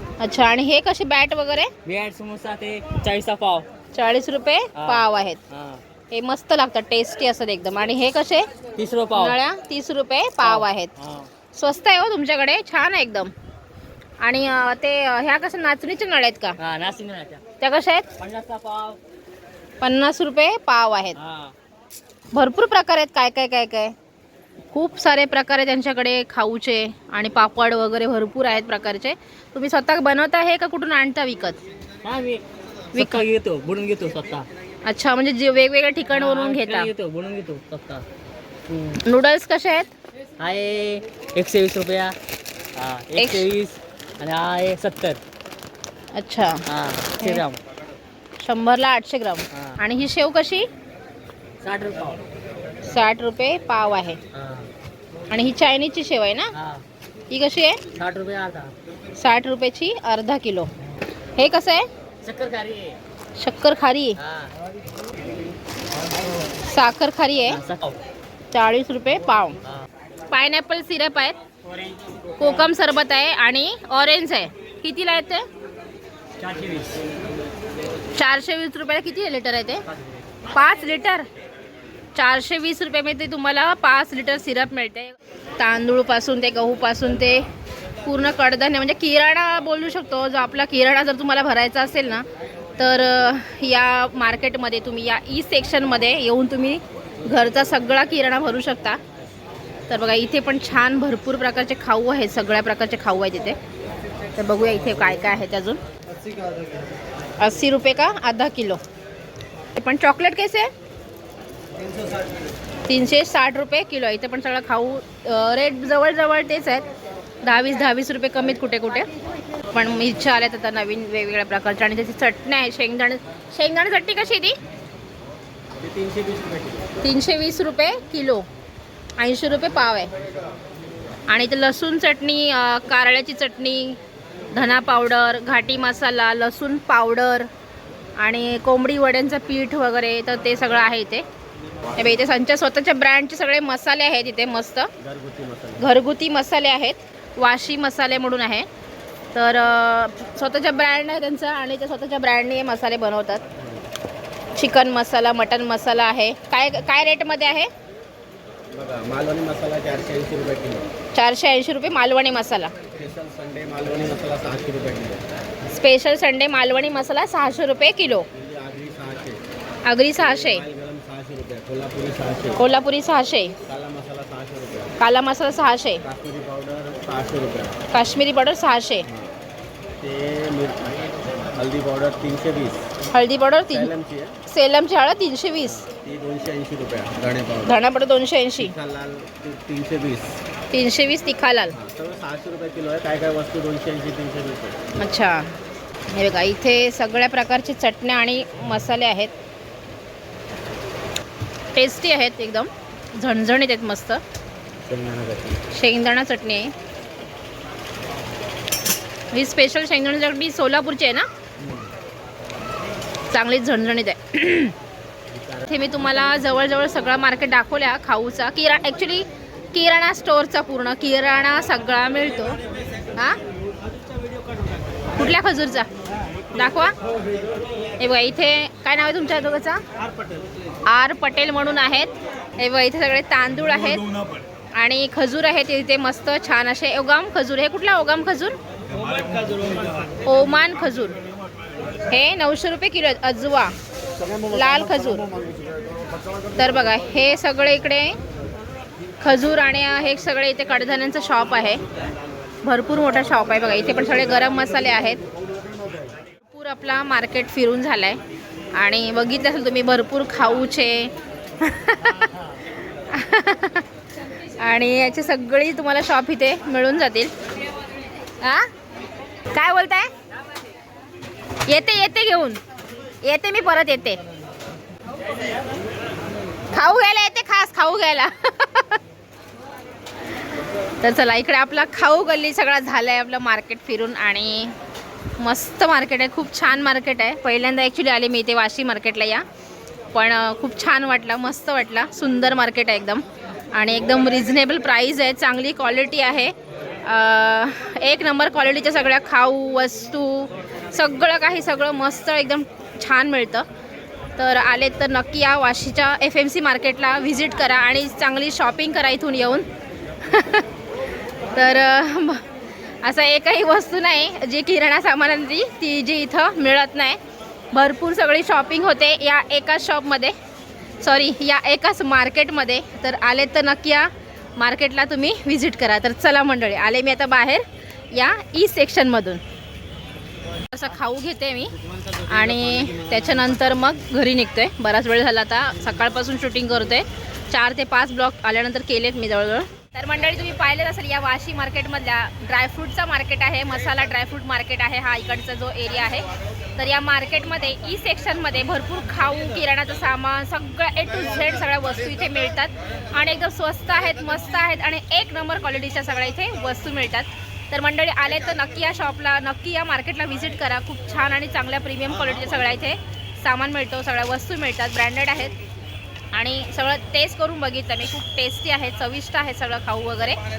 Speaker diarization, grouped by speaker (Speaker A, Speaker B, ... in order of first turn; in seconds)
Speaker A: 0.2-1.7, 3.9-5.4, 6.1-8.5, 9.1-10.9, 11.5-13.3, 14.2-16.6, 17.6-18.1, 19.8-21.2, 22.3-23.9, 24.7-31.6, 33.0-33.2, 34.9-36.9, 39.0-39.9, 43.2-43.5, 46.1-46.6, 48.4-50.7, 52.9-54.2, 55.3-56.5, 57.3-57.8, 59.1-60.7, 61.4-61.9, 63.4-64.2, 66.6-67.6, 68.5-69.6, 70.3-71.4, 72.4-75.5, 78.2-79.8, 80.5-81.3, 82.2-87.5, 88.0-92.2, 92.8-99.0, 99.9-103.6, 104.4-105.8, 107.4-108.8, 109.8-110.7, 112.9-116.9, 117.4-119.1, 119.7-124.5, 127.0-128.4, 129.2-130.1, 131.3-134.0, 134.5-137.5, 138.2-141.2, 142.0-144.9, 145.8-148.7, 149.3-153.4, 154.6-157.7, 161.1-162.7, 165.7-168.3, 169.9-170.7, 172.6-173.6, 175.0-176.0, 177.9-179.1, 183.1-183.9, 184.5-185.9, 187.7-188.7, 190.7-191.8, 195.0-195.5, 196.1-199.3, 201.7-204.2, 205.7-206.7, 209.3-211.3, 213.3-214.8, 215.7-222.6, 225.1-225.9, 226.5-226.9, 228.0-229.8, 230.9-234.1, 234.8-238.6, 240.2-241.2, 242.1-243.7, 244.3-245.3, 246.6-248.2, 249.2-251.8, 252.7-255.2, 256.5-258.2, 258.8-262.3, 263.1-263.9, 264.6-267.3, 268.4-268.7, 269.5-270.1, 271.7-272.6, 273.2-274.2, 276.7-279.0, 281.0-284.8, 285.4-289.4, 290.1-303.7, 304.4-309.7, 310.2-310.7, 311.5-312.5, 313.0-317.2, 317.7-320.3, 321.0-329.4, 330.7-365.5, 366.3-370.4
Speaker B: 1.8-3.7, 4.8-5.8, 8.8-9.4, 10.4-11.3, 16.6-17.4, 18.2-19.0, 21.2-21.5, 32.0-32.4, 32.9-34.5, 36.1-38.0, 38.7-39.0, 40.4-42.1, 42.8-45.2, 46.7-47.6, 49.5-49.8, 51.6-52.2, 54.3-54.7, 56.5-56.9, 57.9-58.7, 62.2-63.0, 64.2-64.5, 67.5-68.0, 71.7-72.7, 76.4-77.0, 79.9-80.3, 204.9-205.2, 224.1-225.0, 239.0-239.9, 262.2-262.5
Speaker C: 125.8-126.9, 145.0-145.9, 153.6-153.9, 158.7-160.9, 162.9-165.3, 168.3-169.4, 170.2-172.6, 173.7-175.0, 176.0-177.8, 179.1-179.3, 180.0-182.9, 183.7-184.4, 185.7-187.8, 188.6-190.4, 191.7-194.8, 204.9-205.4, 211.6-211.9, 331.8-333.6